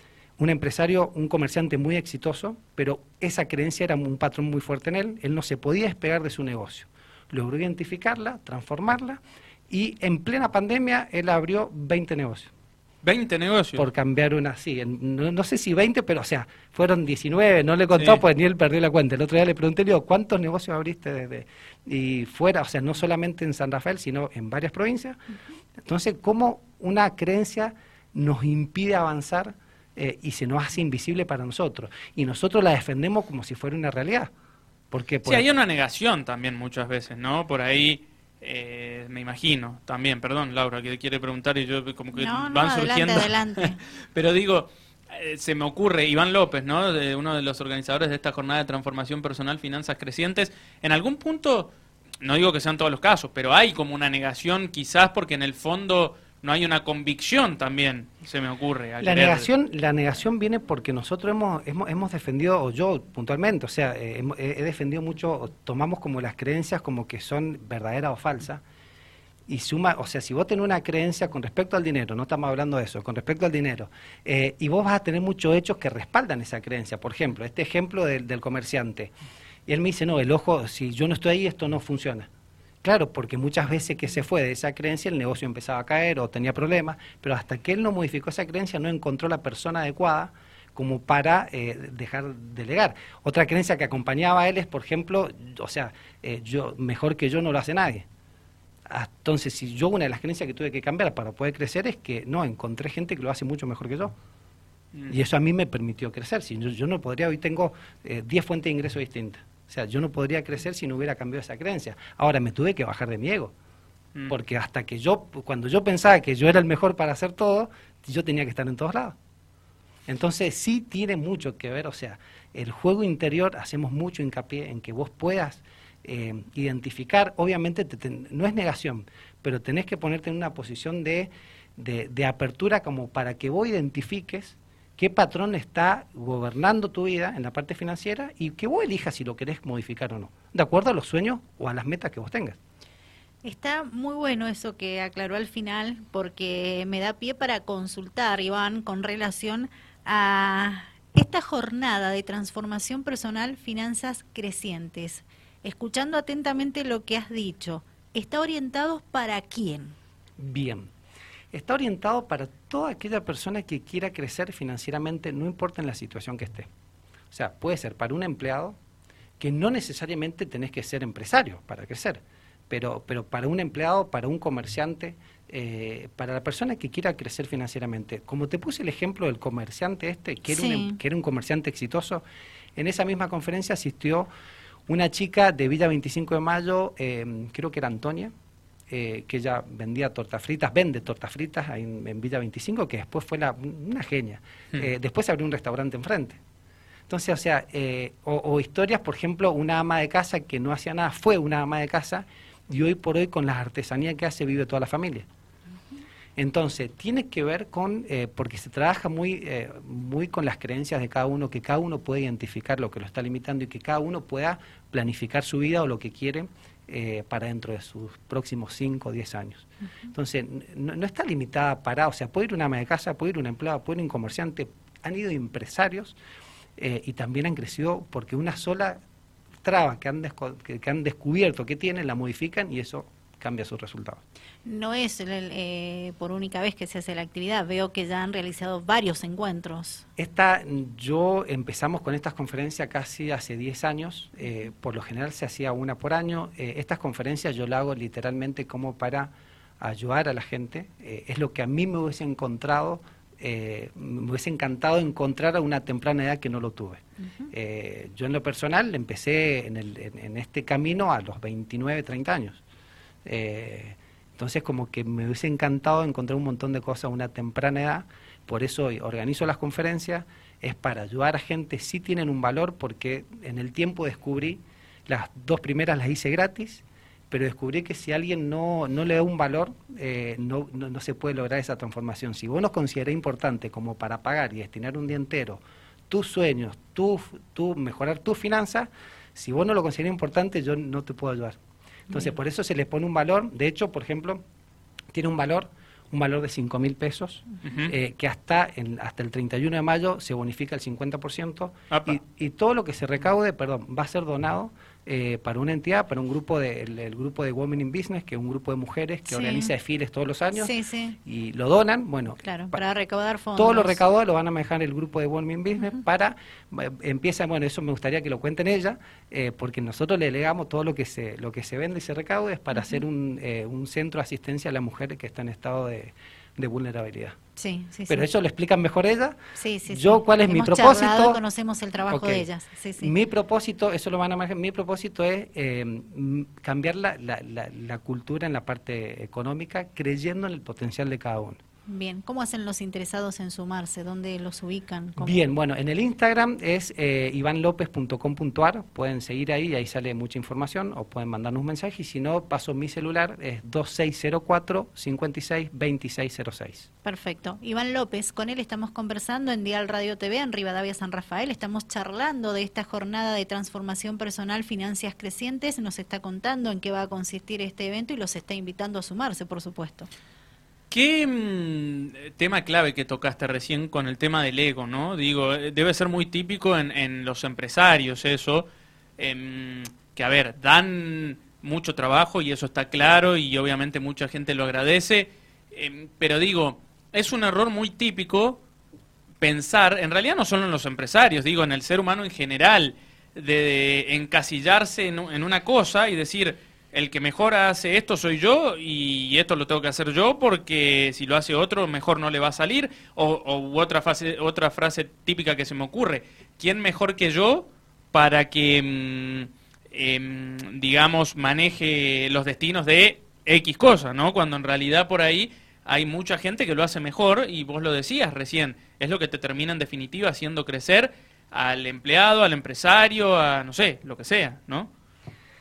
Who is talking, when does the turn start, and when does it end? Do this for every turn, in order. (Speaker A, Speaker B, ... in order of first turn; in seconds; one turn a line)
Speaker A: 0.4-12.5
Speaker B: 13.0-13.9
Speaker A: 13.8-25.2
Speaker B: 17.9-18.2
Speaker A: 25.9-34.3
Speaker A: 34.9-35.5
Speaker B: 35.2-59.5
Speaker C: 42.1-43.8
Speaker A: 59.0-68.6
Speaker A: 69.5-79.1
Speaker A: 79.7-82.3
Speaker A: 82.8-98.1
Speaker A: 98.9-104.1
Speaker A: 105.1-113.5
Speaker A: 114.3-119.2
Speaker A: 120.1-142.6
Speaker C: 143.4-160.0
Speaker A: 160.4-160.9
Speaker A: 161.5-166.7
Speaker A: 167.3-168.8
Speaker A: 169.4-182.2
Speaker C: 180.5-181.0
Speaker A: 182.8-184.3
Speaker A: 184.9-188.3
Speaker A: 188.9-196.4
Speaker A: 197.1-205.3
Speaker A: 206.4-226.2
Speaker A: 226.8-229.0
Speaker A: 229.6-234.2
Speaker C: 234.7-240.1
Speaker A: 240.2-262.6
Speaker C: 257.2-257.5
Speaker A: 263.2-291.6
Speaker A: 292.1-294.4
Speaker A: 295.1-310.7
Speaker B: 297.6-297.9
Speaker B: 301.9-302.2
Speaker C: 309.3-309.7
Speaker C: 310.5-311.2
Speaker A: 311.2-312.8
Speaker C: 312.4-314.0
Speaker A: 313.6-327.4
Speaker C: 327.6-328.3
Speaker A: 328.1-329.4
Speaker C: 329.6-333.1
Speaker A: 329.9-331.4
Speaker A: 332.1-332.5
Speaker A: 333.0-341.6
Speaker C: 341.9-345.4
Speaker A: 345.2-356.9
Speaker C: 357.0-370.1
Speaker B: 370.9-378.7
Speaker B: 379.2-388.6
Speaker B: 389.4-424.9